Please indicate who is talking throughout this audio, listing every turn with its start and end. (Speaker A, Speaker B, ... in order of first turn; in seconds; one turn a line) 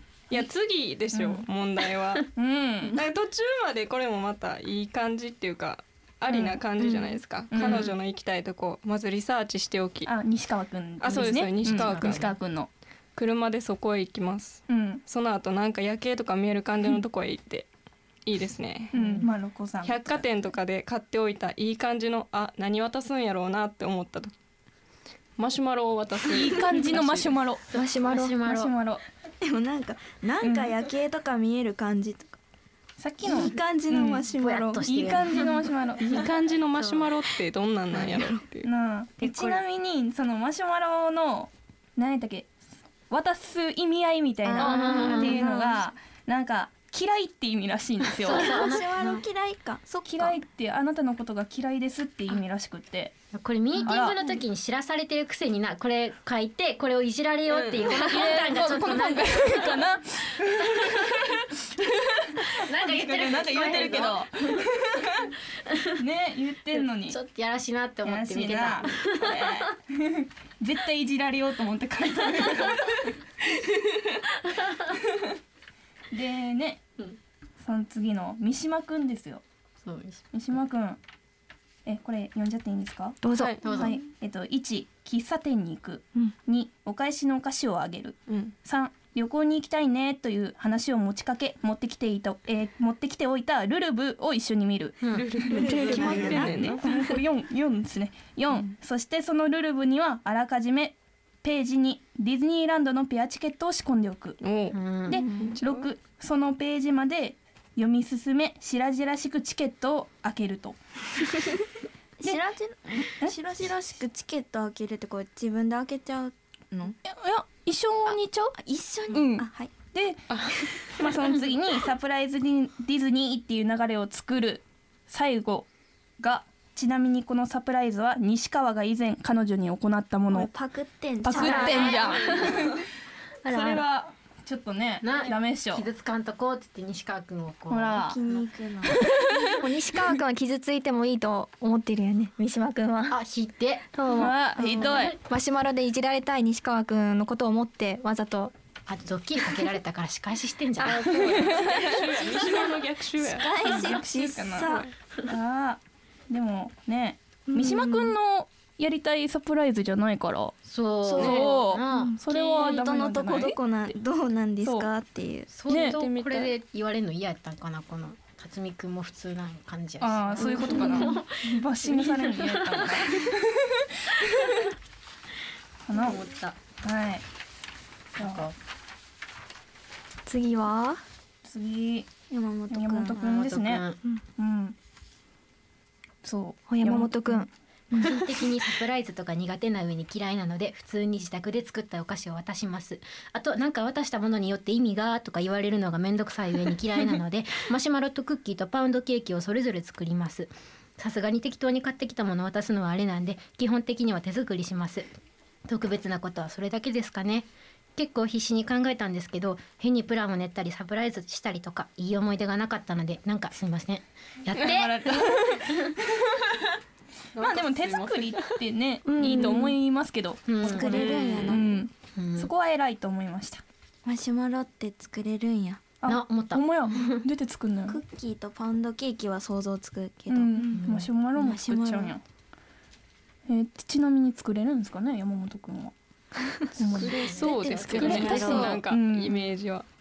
Speaker A: 0.3-2.3
Speaker B: 1.1-1.5
Speaker B: 2.4-3.0
Speaker A: 3.0-10.1
Speaker B: 6.3-6.6
Speaker C: 6.8-7.1
Speaker B: 7.5-8.0
Speaker B: 10.1-12.7
Speaker A: 11.0-12.3
Speaker D: 11.1-12.3
Speaker A: 13.2-17.7
Speaker B: 14.7-15.0
Speaker A: 18.2-18.9
Speaker D: 18.9-19.3
Speaker B: 18.9-20.2
Speaker A: 19.8-24.3
Speaker A: 25.4-27.4
Speaker B: 26.3-27.7
Speaker D: 27.7-28.7
Speaker C: 27.8-28.3
Speaker B: 28.3-29.0
Speaker E: 29.4-32.4
Speaker B: 30.4-30.8
Speaker B: 33.0-34.3
Speaker E: 33.2-35.2
Speaker D: 34.4-35.5
Speaker B: 34.9-36.2
Speaker A: 36.0-38.7
Speaker D: 36.8-37.1
Speaker D: 37.9-38.3
Speaker B: 38.6-42.6
Speaker D: 39.2-39.6
Speaker B: 43.1-48.6
Speaker D: 44.5-45.4
Speaker A: 44.6-45.5
Speaker D: 48.2-49.2
Speaker E: 48.4-50.4
Speaker B: 50.0-53.1
Speaker D: 53.3-59.8
Speaker B: 53.8-54.4
Speaker A: 57.5-57.8
Speaker B: 57.9-61.4
Speaker D: 60.6-60.9
Speaker B: 62.1-65.3
Speaker D: 62.4-64.3
Speaker D: 65.6-66.0
Speaker B: 66.0-67.2
Speaker D: 66.7-69.6
Speaker B: 68.0-74.2
Speaker B: 76.1-76.8
Speaker B: 77.6-79.4
Speaker D: 79.8-80.2
Speaker B: 80.3-81.0
Speaker B: 81.9-104.4
Speaker C: 83.2-83.8
Speaker A: 83.3-83.6
Speaker D: 83.6-84.0
Speaker A: 88.3-88.5
Speaker D: 95.0-96.5
Speaker A: 95.3-97.2
Speaker E: 95.9-96.3
Speaker C: 95.9-96.2
Speaker A: 104.4-104.8
Speaker D: 104.7-105.2
Speaker B: 105.1-110.8
Speaker E: 105.2-105.6
Speaker A: 105.4-105.9
Speaker E: 112.2-117.0
Speaker B: 117.1-118.6
Speaker E: 118.6-119.7
Speaker B: 119.1-125.7
Speaker A: 120.3-121.1
Speaker B: 126.2-130.5
Speaker E: 130.3-132.4
Speaker B: 131.2-132.9
Speaker D: 131.3-132.7
Speaker E: 133.5-133.8
Speaker B: 133.5-135.9
Speaker C: 133.5-133.8
Speaker D: 135.0-138.5
Speaker B: 137.7-138.2
Speaker E: 137.9-139.1
Speaker B: 138.9-139.6
Speaker C: 139.6-143.2
Speaker D: 143.1-143.9
Speaker C: 143.9-144.6
Speaker B: 144.1-145.2
Speaker E: 144.6-145.1
Speaker D: 144.6-145.2
Speaker C: 145.2-148.5
Speaker D: 148.9-151.1
Speaker A: 150.8-154.9
Speaker B: 151.2-152.0
Speaker E: 152.3-152.5
Speaker E: 153.2-154.9
Speaker B: 153.6-160.6
Speaker C: 157.5-158.1
Speaker D: 160.6-162.2
Speaker E: 161.1-161.4
Speaker B: 161.2-163.6
Speaker A: 161.2-161.5
Speaker E: 162.0-165.5
Speaker B: 164.6-164.9
Speaker D: 165.5-173.3
Speaker B: 165.7-166.0
Speaker A: 165.7-166.5
Speaker B: 170.0-174.3
Speaker A: 170.4-171.2
Speaker B: 175.9-176.2
Speaker D: 175.9-176.6
Speaker B: 176.8-177.2
Speaker D: 178.2-178.6
Speaker B: 178.2-178.5
Speaker C: 180.2-181.0
Speaker B: 181.4-182.2
Speaker E: 182.3-183.4
Speaker B: 182.7-183.8
Speaker D: 183.2-184.0
Speaker B: 184.4-184.8
Speaker B: 186.2-187.5
Speaker C: 186.7-188.4
Speaker D: 187.9-205.1
Speaker D: 205.7-215.9
Speaker B: 214.6-216.4
Speaker A: 217.3-218.6
Speaker B: 217.4-223.6
Speaker C: 219.1-219.8
Speaker D: 220.5-221.6
Speaker E: 220.6-221.9
Speaker A: 220.9-221.5
Speaker D: 222.1-222.5
Speaker E: 224.1-225.9
Speaker B: 226.0-228.0
Speaker D: 226.1-227.2
Speaker E: 227.9-230.8
Speaker B: 230.3-232.2
Speaker D: 230.8-231.1
Speaker E: 231.4-232.2
Speaker B: 233.5-235.9
Speaker B: 236.8-239.5
Speaker D: 236.8-238.8
Speaker A: 236.9-239.9
Speaker E: 237.2-238.7